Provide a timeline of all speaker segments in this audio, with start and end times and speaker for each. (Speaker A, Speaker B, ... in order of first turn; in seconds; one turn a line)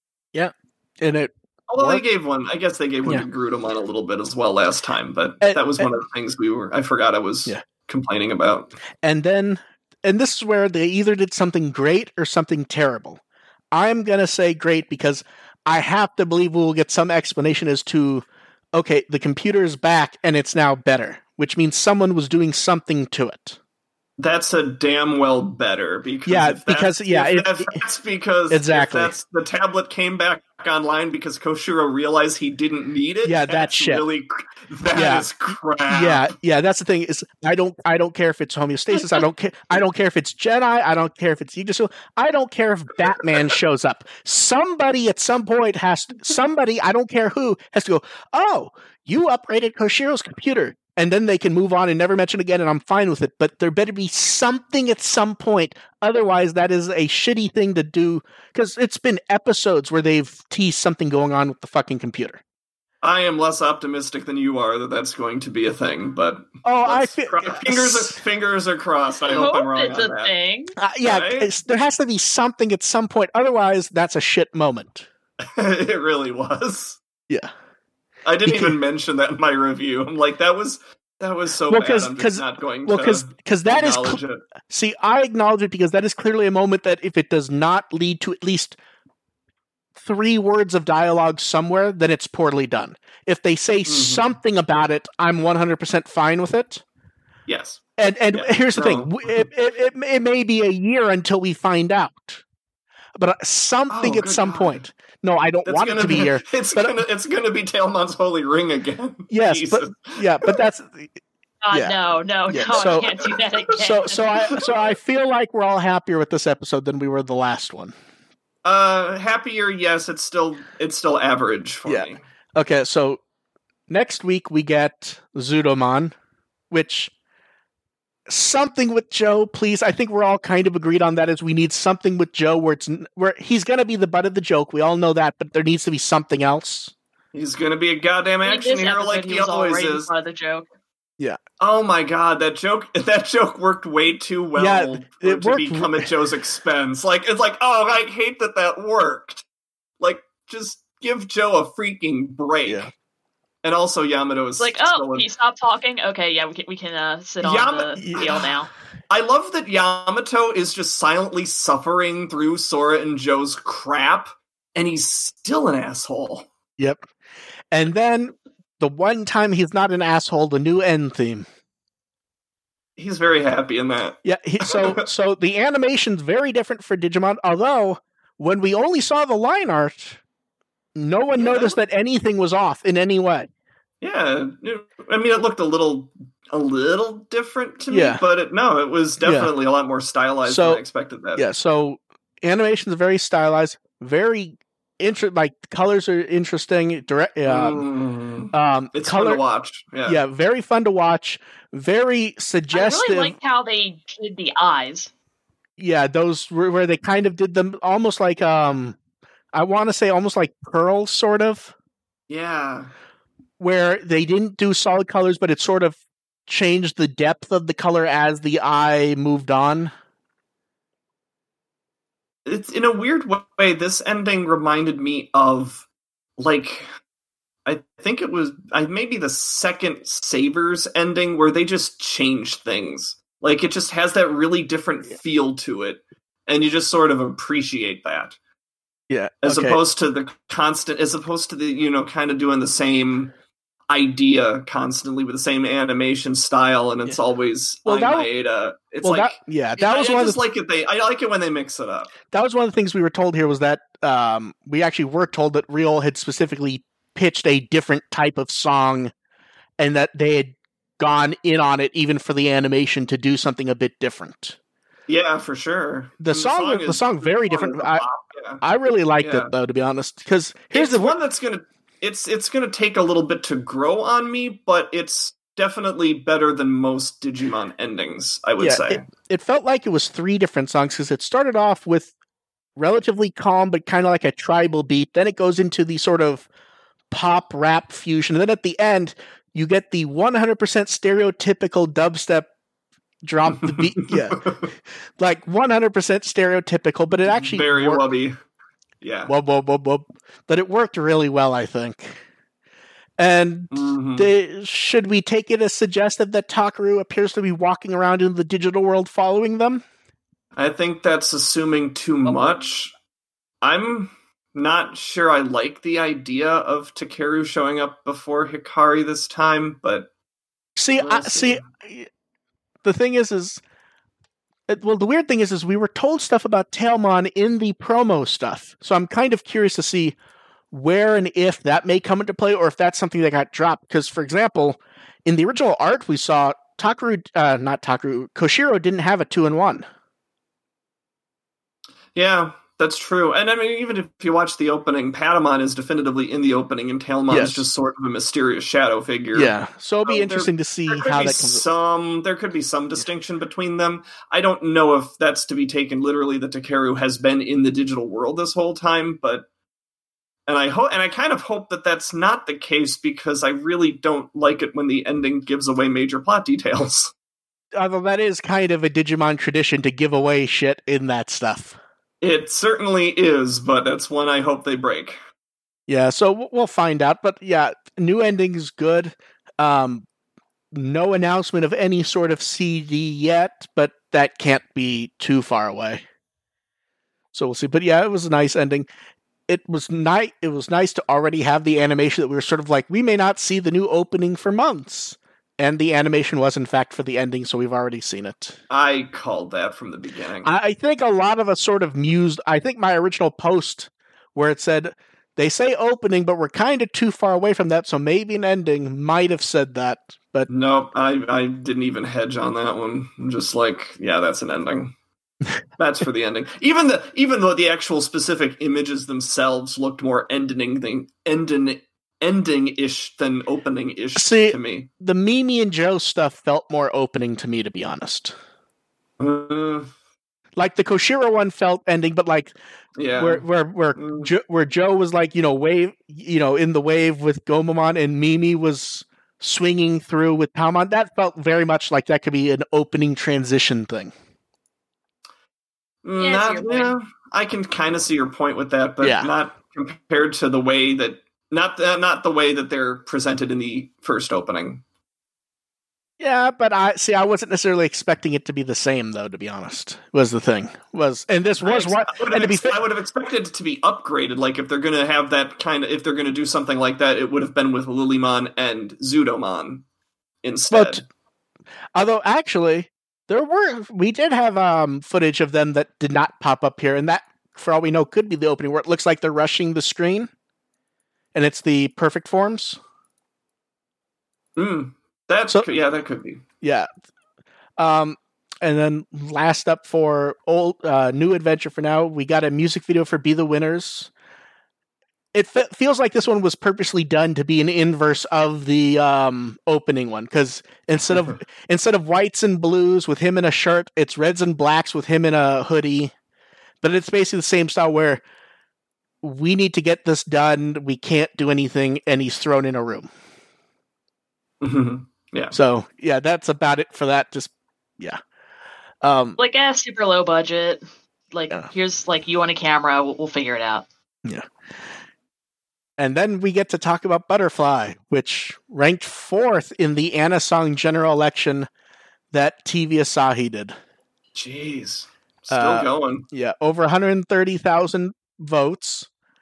Speaker A: 0.3-2.0
Speaker B: 1.7-8.7
Speaker A: 5.4-5.9
Speaker A: 9.0-13.2
Speaker A: 13.7-23.6
Speaker B: 24.2-36.3
Speaker A: 26.2-27.7
Speaker A: 28.5-29.1
Speaker A: 33.2-34.0
Speaker A: 34.9-35.3
Speaker A: 35.9-62.4
Speaker B: 63.0-70.3
Speaker A: 66.6-68.2
Speaker C: 69.3-70.8
Speaker A: 70.8-75.1
Speaker B: 71.0-71.5
Speaker B: 75.4-77.0
Speaker B: 78.2-84.5
Speaker A: 78.5-78.7
Speaker A: 81.7-88.8
Speaker A: 90.0-96.8
Speaker B: 93.9-94.2
Speaker B: 97.5-99.5
Speaker A: 98.0-102.4
Speaker A: 103.2-107.0
Speaker B: 103.9-104.8
Speaker B: 105.7-110.6
Speaker A: 109.3-111.2
Speaker C: 111.6-114.7
Speaker A: 111.7-112.0
Speaker A: 112.5-113.2
Speaker B: 112.7-113.4
Speaker A: 113.8-117.9
Speaker B: 114.4-114.7
Speaker B: 118.6-122.2
Speaker A: 121.8-123.2
Speaker A: 123.9-126.1
Speaker A: 126.7-127.1
Speaker A: 128.3-136.9
Speaker B: 137.3-140.1
Speaker C: 138.4-140.7
Speaker B: 141.6-149.4
Speaker A: 144.6-146.1
Speaker B: 150.0-152.9
Speaker A: 152.6-152.9
Speaker B: 153.6-155.3
Speaker C: 154.6-158.7
Speaker B: 157.4-158.5
Speaker A: 158.0-158.4
Speaker B: 159.1-166.5
Speaker A: 166.8-167.1
Speaker A: 167.7-171.4
Speaker B: 173.0-175.0
Speaker A: 174.2-180.2
Speaker A: 180.9-183.5
Speaker B: 181.4-181.8
Speaker B: 184.0-191.4
Speaker A: 187.9-188.2
Speaker A: 189.2-189.5
Speaker A: 190.4-190.8
Speaker A: 191.3-197.8
Speaker B: 197.5-200.2
Speaker A: 198.5-199.4
Speaker A: 200.0-203.3
Speaker C: 202.7-205.1
Speaker A: 205.8-209.0
Speaker A: 209.5-211.7
Speaker B: 212.3-212.9
Speaker A: 213.6-219.9
Speaker B: 222.4-225.8
Speaker B: 226.4-226.9
Speaker B: 227.7-238.4
Speaker A: 239.1-239.8
Speaker B: 239.4-243.3
Speaker B: 243.9-252.1
Speaker A: 247.8-248.3
Speaker A: 249.0-250.4
Speaker A: 252.3-259.1
Speaker A: 259.8-264.6
Speaker B: 265.1-268.6
Speaker A: 266.2-268.0
Speaker A: 268.6-271.1
Speaker B: 269.2-269.5
Speaker B: 270.7-279.1
Speaker A: 278.6-282.1
Speaker A: 282.8-286.5
Speaker A: 287.1-292.5
Speaker A: 293.2-294.7
Speaker B: 293.6-294.7
Speaker A: 295.2-298.0
Speaker B: 297.2-298.4
Speaker B: 299.0-299.3
Speaker A: 299.3-302.2
Speaker A: 303.2-309.8
Speaker B: 303.7-304.3
Speaker B: 310.5-312.9
Speaker B: 313.6-320.1
Speaker A: 320.8-322.1
Speaker B: 321.0-321.6
Speaker A: 322.8-323.6
Speaker A: 324.7-330.1
Speaker A: 330.7-339.9
Speaker B: 342.1-349.5
Speaker A: 347.3-347.6
Speaker A: 349.3-351.6
Speaker B: 350.0-359.4
Speaker B: 360.5-367.1
Speaker A: 367.8-371.8
Speaker B: 372.2-375.2
Speaker A: 375.9-380.1
Speaker A: 380.7-386.0
Speaker A: 387.3-388.9
Speaker A: 389.5-398.6
Speaker B: 398.7-400.5
Speaker A: 400.4-410.5
Speaker B: 410.5-414.9
Speaker B: 415.8-424.9
Speaker A: 424.1-428.3
Speaker B: 429.2-429.9
Speaker A: 430.6-432.5
Speaker B: 433.0-433.4
Speaker A: 433.1-444.1
Speaker B: 433.9-434.3
Speaker B: 446.0-454.8
Speaker C: 446.2-446.9
Speaker A: 449.0-449.3
Speaker A: 456.2-462.8
Speaker B: 461.6-469.8
Speaker B: 470.4-471.0
Speaker A: 470.7-471.0
Speaker A: 471.9-480.3
Speaker A: 481.3-482.8
Speaker B: 484.6-486.4
Speaker A: 486.6-486.9
Speaker A: 487.8-494.1
Speaker A: 495.3-506.1
Speaker A: 506.8-508.2
Speaker A: 509.2-513.1
Speaker B: 514.6-515.5
Speaker A: 515.5-518.2
Speaker A: 519.0-519.4
Speaker C: 519.4-523.9
Speaker A: 524.2-524.5
Speaker A: 526.0-531.7
Speaker A: 532.3-533.7
Speaker B: 534.3-536.2
Speaker A: 535.5-539.1